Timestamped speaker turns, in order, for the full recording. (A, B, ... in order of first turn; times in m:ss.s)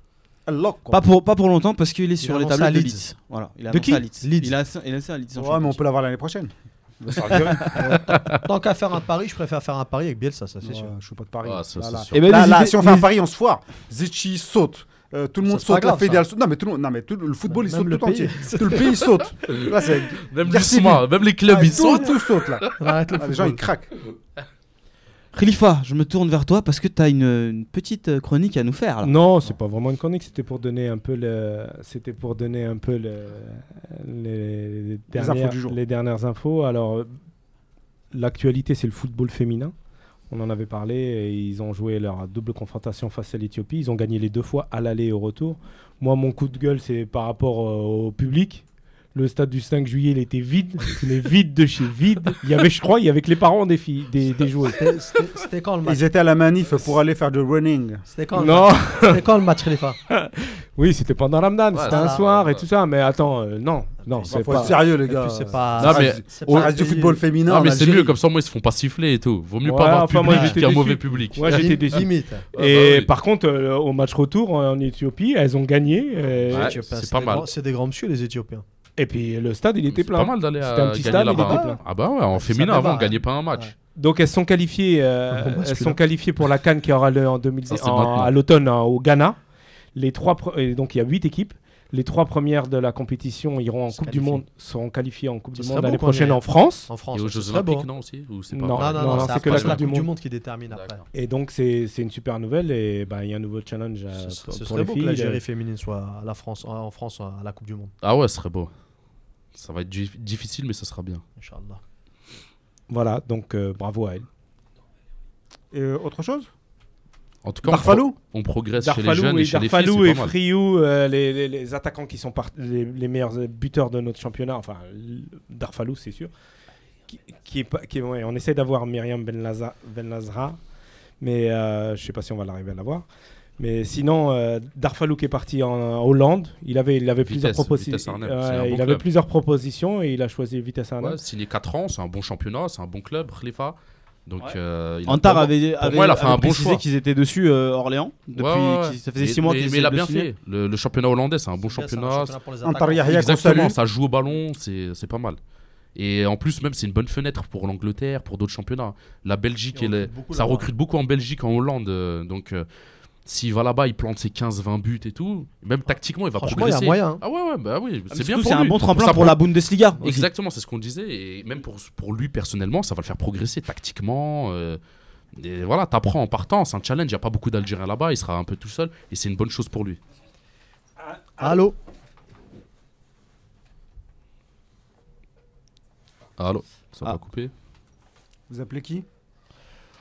0:00.4-0:01.0 A
0:00.9-0:05.8 B
0:02.2-0:03.0 C
0:03.7-0:04.0 D
0:04.2-0:04.5 C
0:05.4-0:07.9 A
0:07.3-0:10.9 C
0:08.0-0:08.3 E
0:10.6-0:23.9 A
0:11.4-0:12.1 E
0:12.1-0:13.1 B
0:15.4-0:16.2 C
0:17.5-0:19.3 C
0:19.5-0:22.8 E
0:22.8-0:23.6 C
0:25.3-0:29.2 B
0:29.0-0:37.1 D
0:35.1-0:35.8 A
0:38.1-0:39.7 D
0:40.3-0:55.2 D
0:54.6-0:56.1 C
0:55.8-0:58.0 A
0:58.1-1:00.0 C
0:58.4-0:59.3 D
1:00.1-1:04.8 D
1:01.7-1:02.6 E
1:01.9-1:02.2 C
1:04.1-1:07.2 C
1:04.3-1:08.2 A
1:05.8-1:06.7 E
1:07.4-1:12.0 E
1:09.6-1:16.8 D
1:10.3-1:10.6 C
1:11.4-1:12.4 C
1:12.5-1:13.1 E
1:16.5-1:17.5 E
1:16.5-1:18.6 C
1:19.0-1:21.8 D
1:19.9-1:23.7 E
1:21.0-1:21.8 C
1:22.3-1:23.7 C
1:24.0-1:29.4 D
1:25.3-1:26.0 C
1:27.7-1:28.3 E
1:29.9-1:36.9 D
1:34.0-1:34.4 C
1:35.6-1:37.9 C
1:37.1-1:39.8 E
1:38.5-1:40.1 D
1:38.8-1:41.0 C
1:40.7-1:41.0 E
1:41.1-1:45.4 D
1:44.1-1:47.9 C
1:48.0-1:48.7 E
1:49.6-1:51.2 E
1:51.4-1:51.8 C
1:52.9-1:54.3 D
1:55.7-1:56.5 A
1:57.4-2:00.3 E
1:57.6-1:58.2 A
1:58.8-2:06.3 D
2:07.1-2:10.6 D
2:11.2-2:13.1 D
2:13.6-2:21.2 D
2:17.2-2:19.0 E
2:21.0-2:26.8 E
2:24.4-2:30.3 B
2:28.4-2:32.4 E
2:31.6-2:33.5 C
2:32.6-2:33.8 A
2:33.0-2:35.4 E
2:35.9-2:42.6 E
2:39.7-2:40.7 C
2:43.2-2:49.4 E
2:46.4-2:47.2 C
2:48.1-2:50.3 B
2:50.0-2:54.8 E
2:55.4-3:00.0 E
3:01.4-3:01.7 C
3:06.4-3:07.5 E
3:08.5-3:09.0 A